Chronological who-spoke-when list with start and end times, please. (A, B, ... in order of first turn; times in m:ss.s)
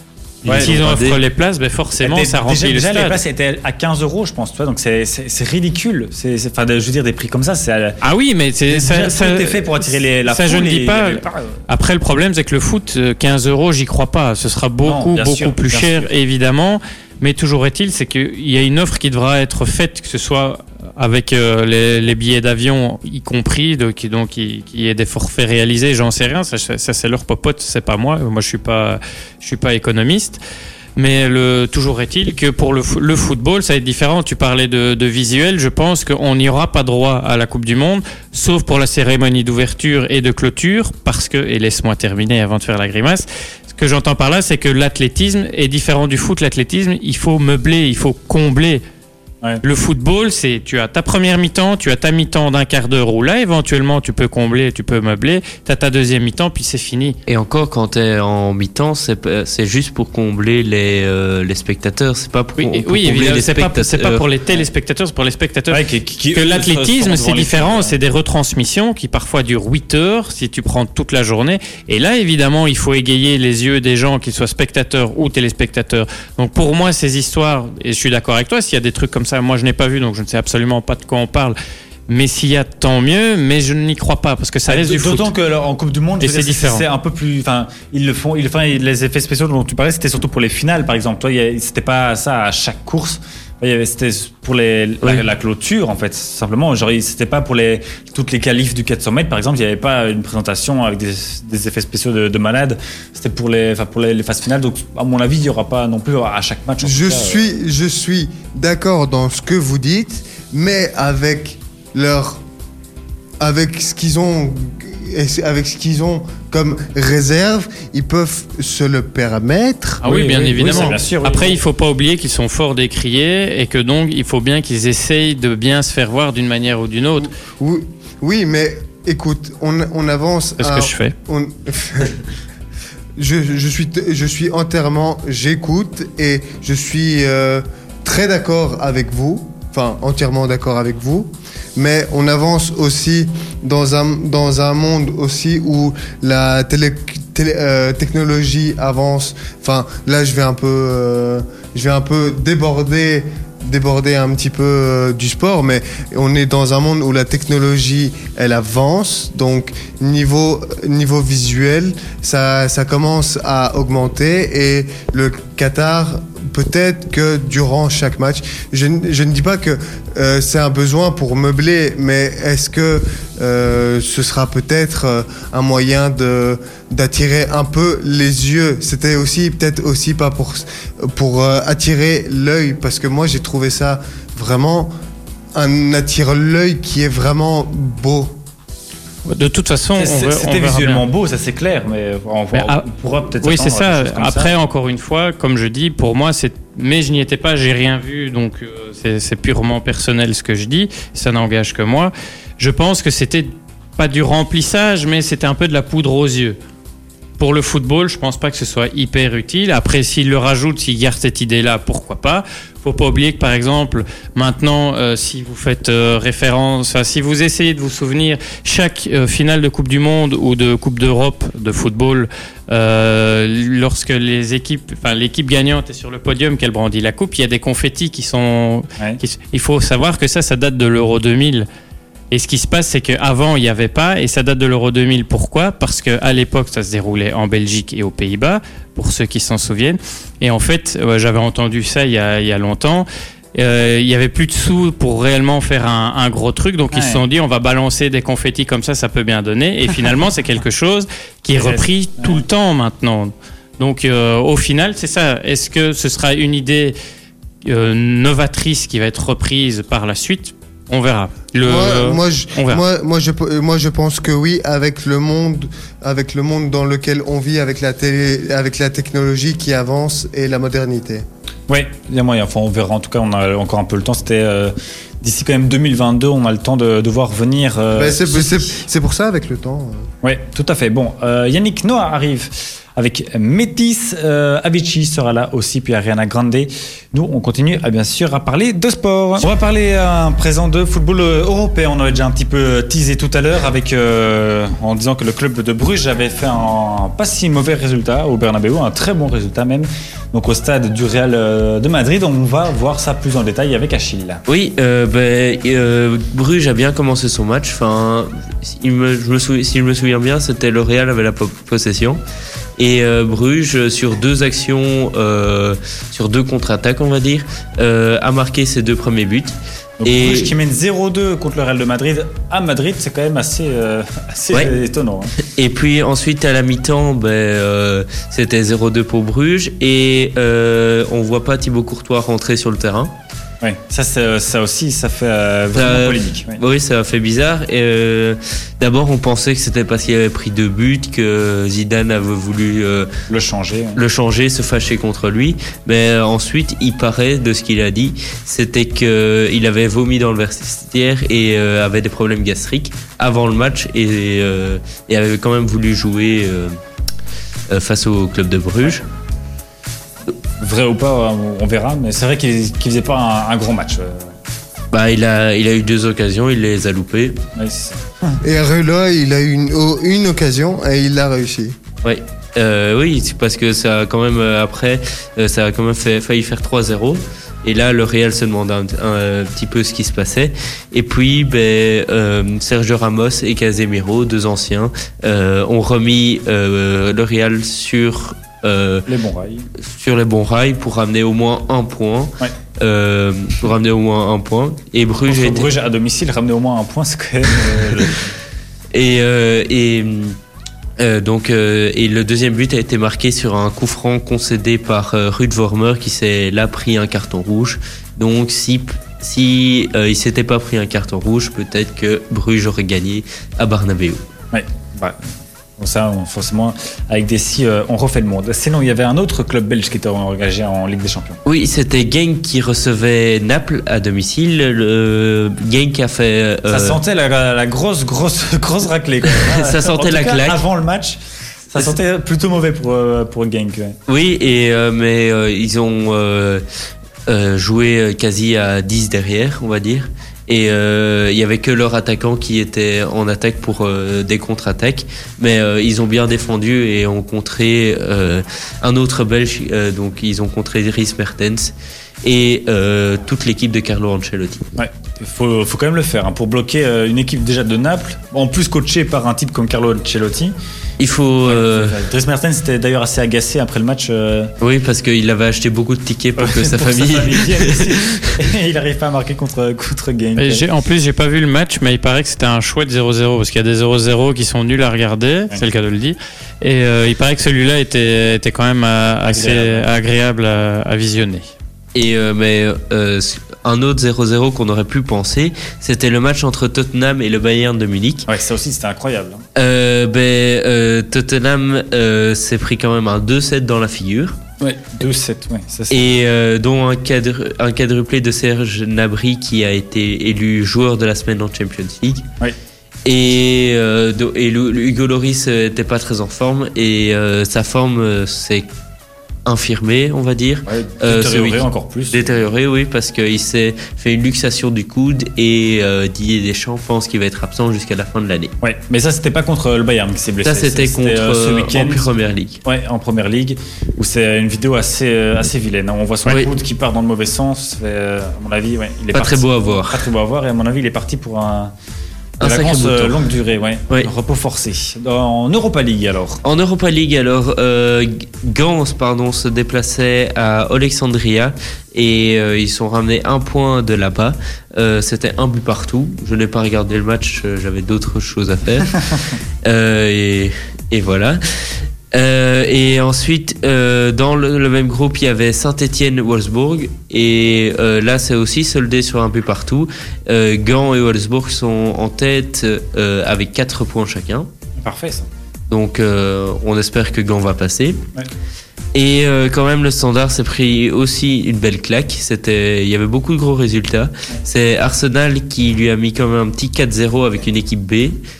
0:00.4-0:00.8 A
0:00.4-0:01.2 B
0:00.5-0:03.2 C
0:02.0-0:08.0 A
0:08.0-0:30.4 C
0:08.7-0:11.6 A
0:14.8-0:16.1 A
0:31.0-0:48.8 C
0:49.6-0:57.2 C
0:57.3-1:04.2 B
1:02.6-1:05.8 C
1:05.7-1:08.0 A
1:06.3-1:21.6 C
1:22.1-1:25.3 C
1:24.7-1:47.5 A
1:26.2-1:26.8 C
1:46.8-1:52.4 D
1:53.4-2:01.0 D
2:00.0-2:01.6 A
2:00.0-2:07.3 C
2:07.2-2:12.2 D
2:10.6-2:11.1 C
2:13.2-3:04.9 D
3:05.5-3:08.4 D
3:09.2-3:11.0 C
3:10.0-3:14.5 A
3:12.5-3:12.8 C
3:13.4-3:26.6 C
3:27.4-3:51.7 C
3:52.3-4:16.9 C
4:06.9-4:07.2 A
4:11.5-4:12.4 A
4:17.6-4:22.8 C
4:21.6-4:31.2 D
4:31.7-4:38.7 A
4:37.9-4:40.1 D
4:40.2-5:04.4 A
5:04.5-5:12.2 B
5:12.8-5:20.5 B
5:20.0-5:25.3 A
5:25.4-5:33.1 B
5:33.6-5:36.6 A
5:35.7-5:43.1 B
5:43.3-5:44.0 A
5:44.0-5:56.8 B
5:57.7-5:59.0 B
6:00.6-6:04.3 A
6:04.9-6:07.4 B
6:07.6-6:08.4 A
6:08.4-6:11.7 D
6:12.0-6:29.1 B
6:29.1-6:29.7 A
6:29.8-6:35.7 B
6:35.3-6:38.3 A
6:38.9-6:40.4 B
6:41.0-6:54.2 B
6:54.5-6:55.2 A
6:55.8-7:01.4 A
7:01.4-7:07.0 B
7:06.7-7:11.2 A
7:09.2-7:10.6 B
7:11.7-7:14.0 A
7:14.1-7:16.6 B
7:17.3-7:34.7 B
7:34.8-7:40.5 A
7:41.0-7:42.0 B
7:41.4-7:44.5 A
7:44.6-7:48.3 B
7:46.4-7:50.6 A
7:50.4-8:01.4 C
7:59.2-7:59.9 A
8:01.9-8:08.3 B
8:08.3-8:09.4 A
8:09.6-8:14.4 B
8:14.6-8:16.1 A
8:15.9-8:22.2 B
8:23.0-8:28.7 B
8:29.4-8:38.5 B
8:30.7-8:32.4 A
8:38.6-8:42.1 A
8:40.4-8:42.6 B
8:42.6-8:51.7 A
8:46.2-8:46.5 B
8:49.1-8:50.1 B
8:52.4-8:56.4 A
8:52.4-8:53.3 B
8:56.4-9:09.0 B
9:09.6-9:24.5 B
9:24.8-9:25.3 A
9:25.7-9:28.0 B
9:28.9-9:38.2 B